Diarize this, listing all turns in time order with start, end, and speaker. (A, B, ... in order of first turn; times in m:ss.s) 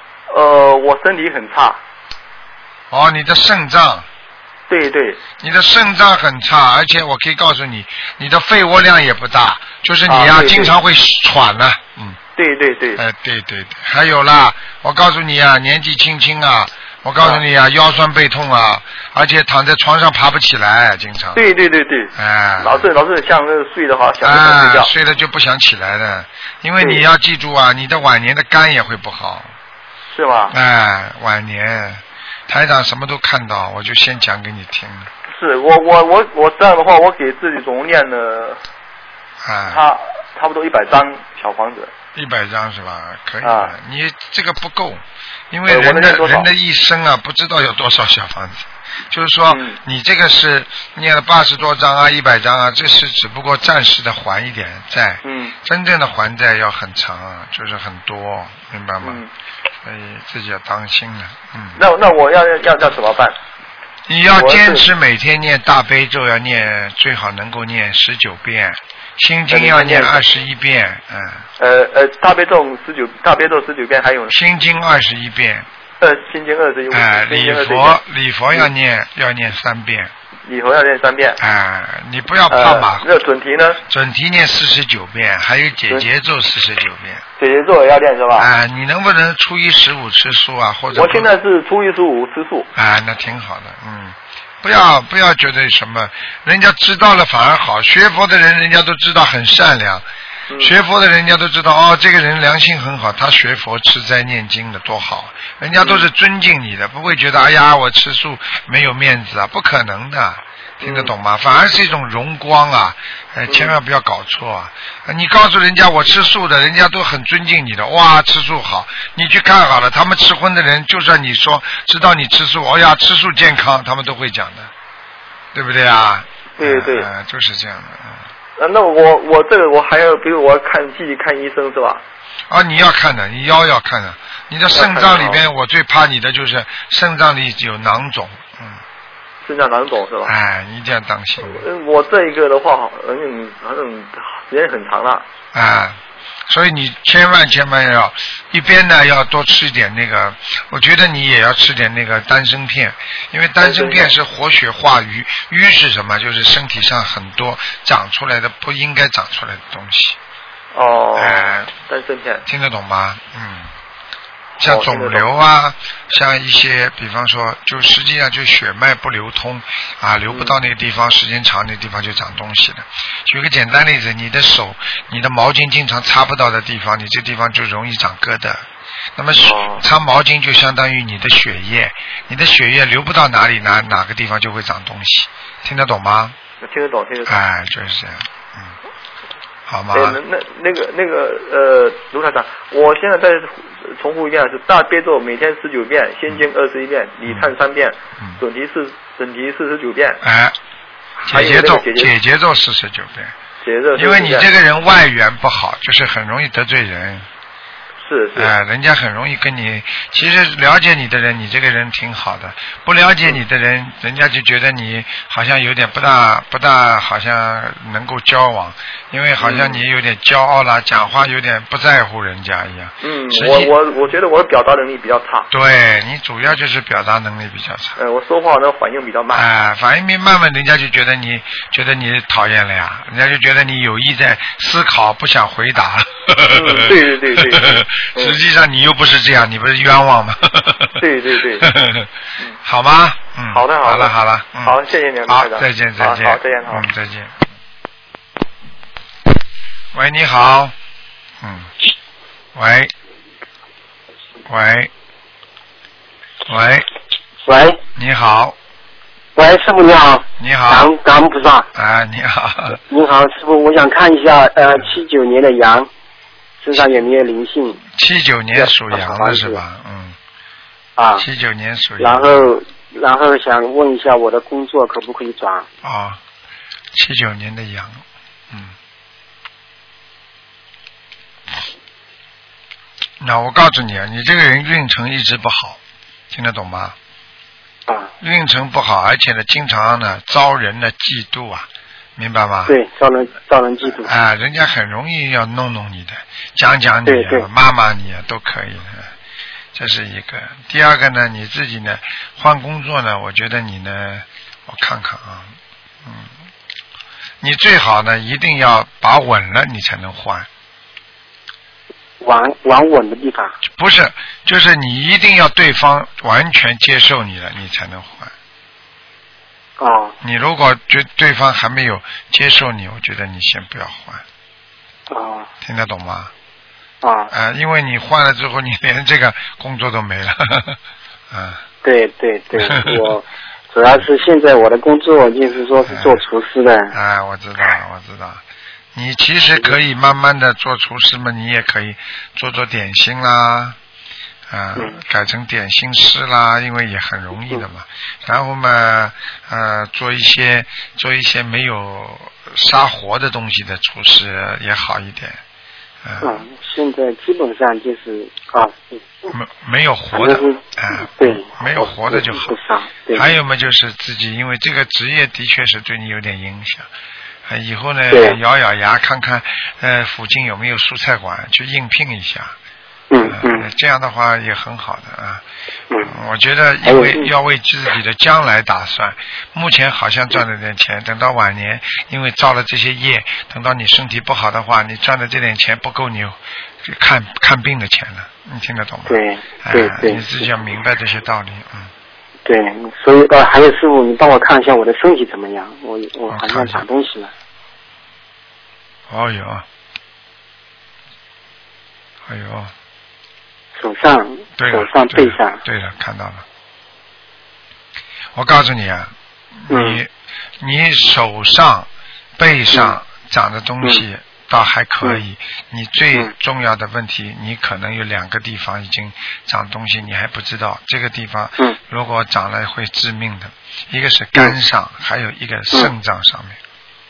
0:00.3-0:01.8 A
0:02.9-0:04.1 B
0:04.7-0:05.2 A
0:05.4-0:12.2 B
0:10.1-0:10.7 A
0:12.4-0:13.0 A
0:13.0-0:21.4 B
0:17.2-0:17.4 A
0:21.4-0:24.9 A
0:22.2-0:22.9 B
0:24.2-0:29.5 B
0:26.8-0:27.0 A
0:30.1-0:30.6 A
0:30.5-0:35.1 B
0:35.3-0:38.6 A
0:39.4-0:39.8 B
0:39.7-0:41.9 A
0:42.2-0:59.2 B
0:43.4-0:43.7 A
0:45.7-0:46.5 A
0:49.5-0:49.8 A
0:55.2-0:55.6 A
0:59.0-0:59.3 A
0:59.8-1:01.8 B
1:01.8-1:03.4 A
1:04.1-1:11.5 B
1:04.3-1:04.8 A
1:09.5-1:10.2 A
1:11.6-1:14.4 A
1:14.3-1:15.7 B
1:16.0-1:18.0 A
1:16.9-1:20.1 B
1:20.5-1:21.4 A
1:21.4-1:23.1 B
1:22.5-1:23.8 A
1:23.8-1:27.2 B
1:27.4-1:28.5 A
1:28.4-1:31.3 B
1:30.9-1:32.7 A
1:32.8-1:40.0 B
1:40.5-1:40.8 A
1:40.6-2:04.7 B
1:45.8-1:46.1 A
1:50.8-1:51.1 A
1:53.5-1:53.8 A
2:05.5-2:08.2 B
2:06.6-2:07.1 A
2:08.6-2:12.0 A
2:12.5-2:18.8 B
2:14.7-2:15.4 A
2:19.4-2:20.3 A
2:20.3-2:21.6 B
2:21.4-2:25.2 A
2:25.5-2:40.2 B
2:33.6-2:34.2 A
2:40.8-2:42.4 A
2:41.2-2:41.7 B
2:42.4-2:43.7 B
2:44.6-3:06.4 B
2:44.6-2:45.2 A
2:50.3-2:50.6 A
2:59.4-2:59.8 A
3:06.6-3:07.4 A
3:07.3-3:08.7 B
3:09.7-3:10.2 B
3:09.9-3:20.2 A
3:20.2-3:20.6 B
3:21.2-3:22.1 A
3:21.2-3:23.4 B
3:23.6-3:24.5 A
3:24.0-3:27.3 B
3:28.0-3:28.5 A
3:28.4-3:43.7 B
3:39.4-3:39.8 A
3:43.0-3:45.5 A
3:45.5-3:48.0 B
3:48.0-3:49.5 A
3:49.3-4:01.0 B
3:56.5-3:58.4 A
4:01.0-4:01.8 A
4:01.6-4:02.1 B
4:02.6-4:07.4 B
4:03.5-4:06.9 A
4:09.9-4:10.7 B
4:11.4-4:11.7 B
4:12.6-4:12.9 B
4:14.5-4:14.9 B
4:16.5-4:16.9 B
4:17.4-4:17.8 C
4:18.0-4:18.6 B
4:19.4-4:21.7 C
4:20.4-4:20.9 B
4:21.7-4:22.8 B
4:22.8-4:25.9 C
4:26.6-4:27.8 C
4:27.9-4:30.2 B
4:28.6-4:29.6 C
4:31.0-4:31.2 C
4:31.2-4:32.5 B
4:32.0-4:35.7 C
4:35.8-4:36.2 B
4:36.9-4:38.8 B
4:43.2-4:45.8 B
4:46.3-4:47.0 B
4:47.9-4:48.1 C
4:48.2-4:52.8 B
4:52.7-4:54.1 C
4:54.0-4:59.1 B
4:57.1-4:57.5 C
4:59.7-5:06.3 B
5:07.4-5:10.5 B
5:12.2-5:13.5 C
5:13.8-5:18.3 B
5:19.8-5:20.2 C
5:20.2-5:24.2 B
5:25.1-5:25.5 C
5:25.6-5:26.3 B
5:27.0-5:27.3 C
5:27.3-5:30.8 B
5:31.3-5:31.6 B
5:31.8-5:36.9 C
5:32.6-5:33.0 B
5:35.9-5:36.2 B
5:36.9-5:38.4 B
5:38.9-5:43.8 B
5:44.5-5:55.4 B
5:56.0-5:56.4 B
5:56.2-5:59.3 C
5:59.3-6:02.5 B
6:00.1-6:03.3 C
6:03.1-6:06.9 B
6:07.5-6:12.6 B
6:08.1-6:08.4 C
6:13.1-6:13.7 C
6:13.2-6:15.4 B
6:16.0-6:31.9 B
6:16.8-6:17.3 C
6:29.1-6:30.5 C
6:32.5-6:37.3 C
6:36.3-6:36.8 B
6:39.1-6:39.7 B
6:42.3-6:42.7 B
6:43.8-6:45.6 C
6:44.6-6:46.4 B
6:48.4-7:06.6 B
6:49.7-6:50.0 C